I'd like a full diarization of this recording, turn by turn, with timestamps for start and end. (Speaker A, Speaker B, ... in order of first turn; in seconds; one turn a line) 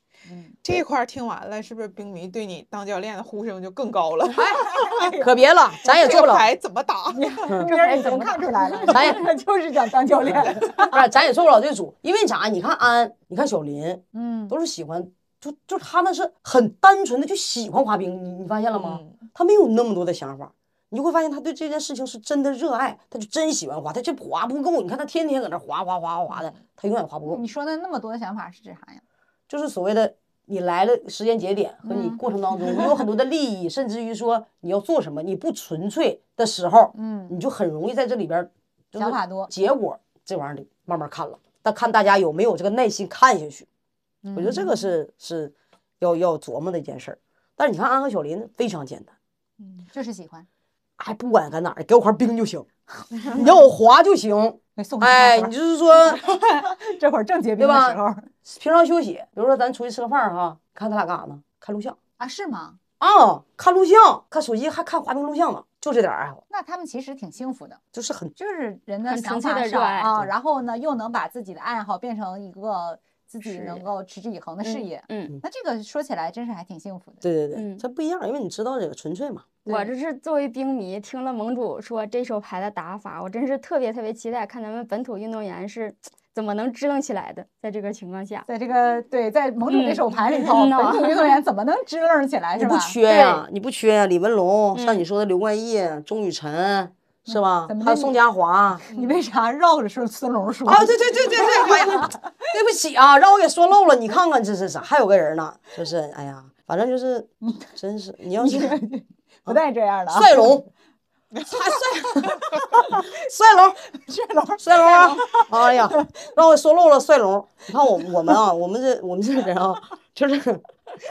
Speaker A: 0.3-0.5
Speaker B: 0.6-5.2
Speaker A: 4.4-5.3
Speaker C: 4.5-6.5
Speaker B: 5.8-8.9
Speaker A: 7.1-11.0
Speaker D: 7.8-8.2
Speaker C: 8.9-9.2
Speaker C: 10.4-27.4
Speaker A: 14.1-14.5
Speaker B: 18.7-19.1
Speaker A: 27.2-29.0
Speaker C: 29.5-43.7
Speaker A: 31.8-32.2
Speaker A: 36.9-37.3
Speaker A: 39.0-39.5
Speaker A: 44.2-44.9
Speaker C: 44.3-49.1
Speaker A: 49.9-50.5
Speaker C: 51.0-56.2
Speaker A: 54.8-58.3
Speaker C: 57.6-62.0
Speaker A: 62.2-62.8
Speaker C: 63.0-66.4
Speaker A: 66.5-67.8
Speaker C: 67.9-68.3
Speaker A: 68.3-77.2
Speaker D: 69.0-70.1
Speaker D: 73.4-73.8
Speaker D: 74.6-75.3
Speaker C: 77.2-79.5
Speaker D: 77.5-77.8
Speaker A: 79.7-79.9
Speaker D: 79.7-88.5
Speaker A: 88.5-93.0
Speaker D: 89.6-91.4
Speaker C: 92.5-98.8
Speaker D: 93.1-93.4
Speaker D: 94.7-95.0
Speaker A: 97.3-98.1
Speaker A: 98.9-102.2
Speaker C: 100.6-108.8
Speaker A: 108.3-110.6
Speaker C: 109.5-110.7
Speaker C: 111.5-113.8
Speaker A: 112.2-113.1
Speaker A: 114.0-116.0
Speaker C: 114.6-120.6